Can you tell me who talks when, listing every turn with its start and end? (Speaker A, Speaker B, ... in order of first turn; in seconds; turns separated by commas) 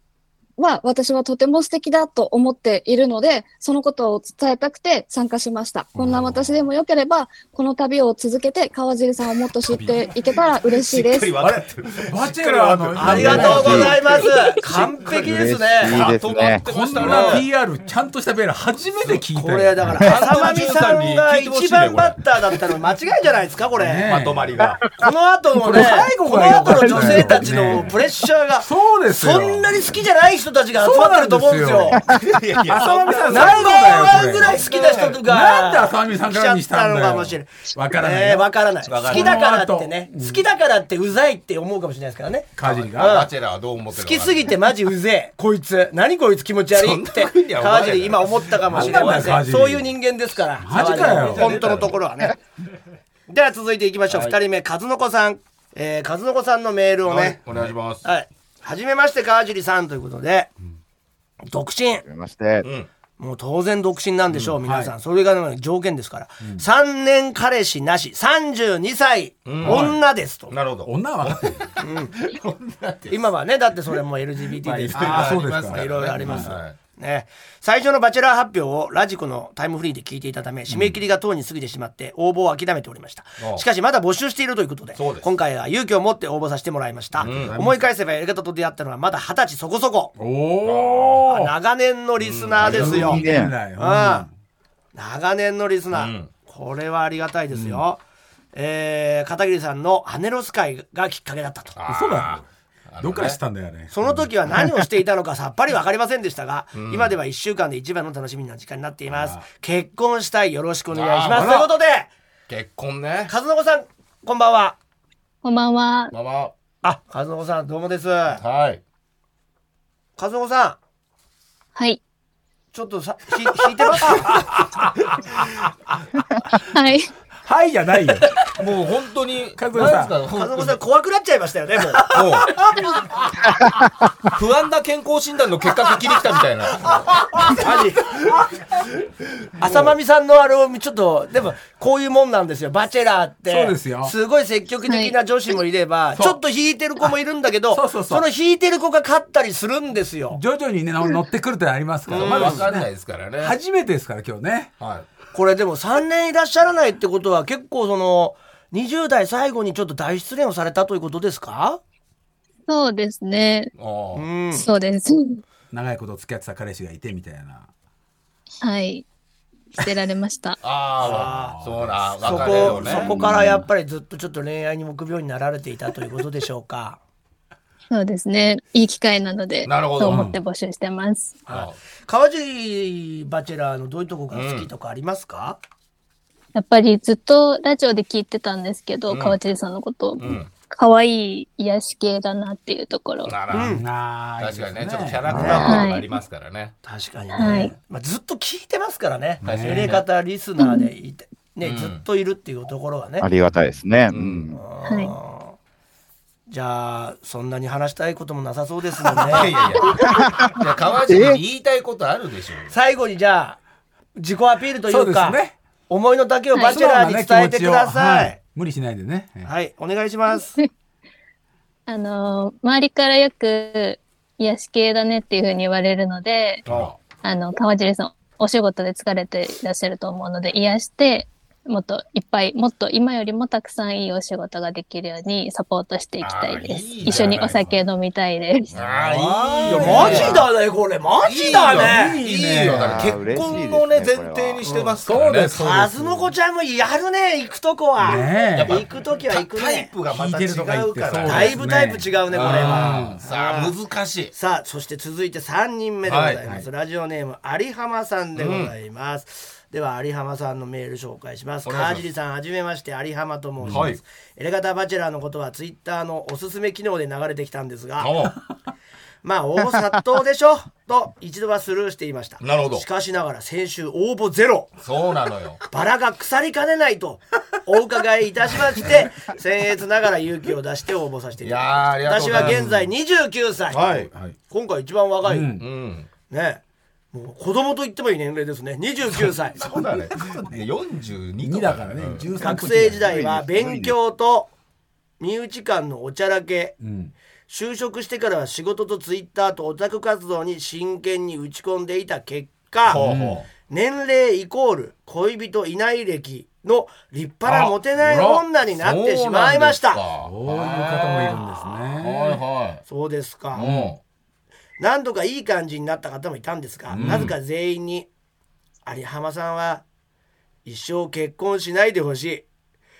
Speaker A: 0.6-11.4, Speaker B: 6.0-6.5, Speaker C: 6.0-6.3, Speaker C: 9.7-15.2, Speaker B: 11.4-14.6, Speaker D: 12.9-16.1, Speaker E: 13.2-13.9, Speaker E: 15.1-16.6, Speaker C: 15.8-17.5, Speaker B: 16.6-20.4, Speaker D: 17.0-17.4, Speaker D: 19.3-24.1, Speaker C: 20.0-22.6, Speaker B: 23.8-24.8, Speaker C: 24.1-24.8, Speaker D: 24.9-32.0, Speaker B: 25.6-28.0, Speaker E: 26.8-27.2, Speaker B: 28.6-29.8, Speaker B: 30.8-34.7, Speaker C: 32.1-35.2, Speaker D: 33.3-43.3, Speaker B: 35.2-38.5, Speaker C: 38.9-39.4, Speaker B: 39.0-40.4, Speaker B: 42.5-43.2, Speaker C: 42.6-44.5, Speaker D: 43.9-52.4, Speaker C: 46.7-49.4, Speaker B: 48.7-49.9, Speaker B: 50.6-51.6, Speaker C: 50.8-52.0, Speaker D: 53.3-57.4, Speaker C: 54.1-54.4, Speaker C: 57.0-58.0, Speaker D: 58.0-60.5, Speaker D: 61.5-62.0, Speaker E: 62.0-62.6, Speaker C: 62.6-62.9, Speaker D: 63.2-70.5, Speaker B: 64.6-64.9, Speaker C: 69.5-73.3, Speaker B: 69.6-70.0, Speaker B: 70.8-71.7, Speaker D: 71.8-72.1, Speaker D: 73.1-90.1, Speaker B: 74.6-76.5, Speaker C: 74.9-76.8, Speaker C: 80.7-81.0, Speaker C: 85.0-85.3, Speaker C: 87.2-87.7, Speaker B: 87.2-87.7, Speaker B: 90.2-91.5, Speaker C: 90.6-91.2, Speaker D: 91.3-93.2, Speaker C: 92.2-93.2, Speaker B: 92.6-94.3, Speaker E: 93.0-93.5, Speaker D: 93.8-94.3, Speaker D: 94.9-98.0, Speaker C: 95.9-96.3, Speaker B: 97.5-97.8, Speaker D: 98.5-101.8, Speaker C: 101.8-103.4, Speaker B: 101.9-102.5, Speaker B: 103.0-104.8, Speaker D: 103.9-112.1, Speaker C: 106.7-107.1, Speaker B: 109.1-109.4, Speaker C: 110.9-111.7, Speaker B: 111.3-111.6, Speaker C: 112.5-113.3, Speaker D: 113.3-114.8, Speaker F: 115.4-116.1, Speaker C: 116.1-116.5, Speaker D: 116.8-118.4, Speaker C: 118.4-118.8, Speaker D: 120.2-120.8, Speaker D: 122.7-124.3, Speaker B: 124.1-124.8, Speaker F: 126.7-127.1, Speaker B: 127.4-128.4, Speaker C: 128.5-130.8, Speaker B: 129.6-130.1, Speaker D: 130.3-132.2, Speaker B: 131.9-133.3, Speaker C: 132.1-132.6, Speaker C: 134.3-137.4, Speaker B: 137.3-137.6, Speaker D: 137.5-138.1, Speaker C: 139.6-139.9, Speaker D: 139.6-150.4, Speaker B: 143.5-144.1, Speaker F: 144.9-145.1, Speaker B: 146.1-146.4, Speaker B: 147.7-148.2, Speaker B: 150.3-154.7, Speaker C: 152.1-153.6, Speaker D: 152.1-152.7, Speaker C: 154.8-155.1, Speaker D: 155.3-161.8, Speaker F: 162.7-163.7, Speaker C: 163.8-164.2, Speaker D: 164.1-164.7, Speaker F: 164.5-165.4, Speaker B: 165.7-167.7, Speaker F: 168.6-169.1, Speaker F: 169.8-170.6, Speaker C: 170.6-173.1, Speaker D: 171.0-171.6, Speaker B: 171.0-173.3, Speaker D: 172.2-177.0, Speaker E: 173.1-173.6, Speaker F: 177.9-181.4, Speaker C: 179.7-180.3, Speaker B: 180.0-180.4, Speaker D: 181.5-185.6, Speaker C: 181.5-181.8, Speaker C: 184.3-184.7, Speaker F: 186.5-193.3, Speaker C: 189.1-189.4, Speaker C: 190.2-190.5, Speaker C: 193.2-193.8, Speaker D: 193.5-193.8, Speaker B: 193.7-195.6, Speaker C: 194.4-196.7, Speaker E: 195.3-195.8, Speaker D: 195.3-195.7, Speaker F: 195.6-196.1, Speaker D: 196.8-203.3, Speaker F: 197.3-197.7, Speaker B: 199.4-200.0, Speaker C: 199.4-200.0, Speaker F: 200.6-200.9, Speaker C: 201.6-202.0, Speaker E: 203.2-204.6, Speaker C: 204.1-204.4, Speaker D: 204.5-205.6, Speaker F: 204.8-205.1, Speaker D: 206.5-209.9, Speaker C: 209.3-212.7, Speaker E: 210.0-210.5, Speaker E: 211.1-211.4, Speaker D: 212.7-213.6, Speaker D: 214.2-218.4, Speaker B: 214.9-215.6, Speaker B: 216.7-219.5, Speaker D: 219.4-220.5, Speaker F: 221.9-226.6, Speaker B: 226.7-227.0, Speaker C: 226.7-226.9, Speaker F: 227.2-238.7, Speaker C: 236.2-237.6, Speaker B: 237.0-237.8, Speaker B: 238.7-240.5, Speaker C: 238.7-240.4, Speaker D: 239.7-242.2, Speaker C: 241.2-245.6, Speaker B: 241.5-243.1, Speaker E: 242.7-244.7, Speaker D: 244.6-245.0, Speaker B: 245.0-246.2, Speaker D: 245.5-249.9, Speaker B: 248.0-248.8, Speaker C: 248.1-251.6, Speaker B: 250.1-253.2, Speaker D: 251.2-253.7, Speaker C: 252.3-254.3, Speaker D: 254.3-268.1, Speaker C: 256.1-256.4, Speaker C: 258.4-258.7, Speaker C: 261.6-262.1, Speaker B: 263.6-263.9, Speaker C: 263.7-264.0, Speaker C: 268.0-268.4, Speaker D: 269.2-274.7, Speaker C: 272.4-272.9, Speaker C: 274.8-275.6, Speaker D: 275.7-283.9, Speaker C: 281.4-282.8, Speaker B: 282.3-282.6, Speaker C: 283.7-284.1, Speaker B: 283.9-284.4, Speaker D: 284.5-285.6, Speaker B: 285.2-285.6, Speaker C: 285.6-286.1, Speaker D: 286.3-286.6, Speaker D: 287.1-289.6, Speaker C: 289.1-292.3, Speaker B: 291.4-293.1, Speaker D: 292.4-294.5, Speaker E: 293.0-293.9, Speaker D: 295.2-296.8, Speaker B: 296.8-297.1, Speaker D: 297.5-303.0, Speaker C: 302.9-303.5, Speaker B: 302.9-303.4, Speaker D: 303.7-310.0, Speaker B: 307.9-308.4, Speaker C: 308.7-311.4, Speaker B: 310.2-312.4, Speaker D: 311.3-311.8, Speaker C: 312.0-312.8, Speaker D: 312.9-313.6, Speaker C: 313.5-314.0, Speaker B: 313.6-313.9, Speaker D: 314.8-318.1, Speaker B: 316.9-317.3, Speaker C: 317.0-317.3, Speaker D: 318.8-319.8, Speaker D: 320.6-322.4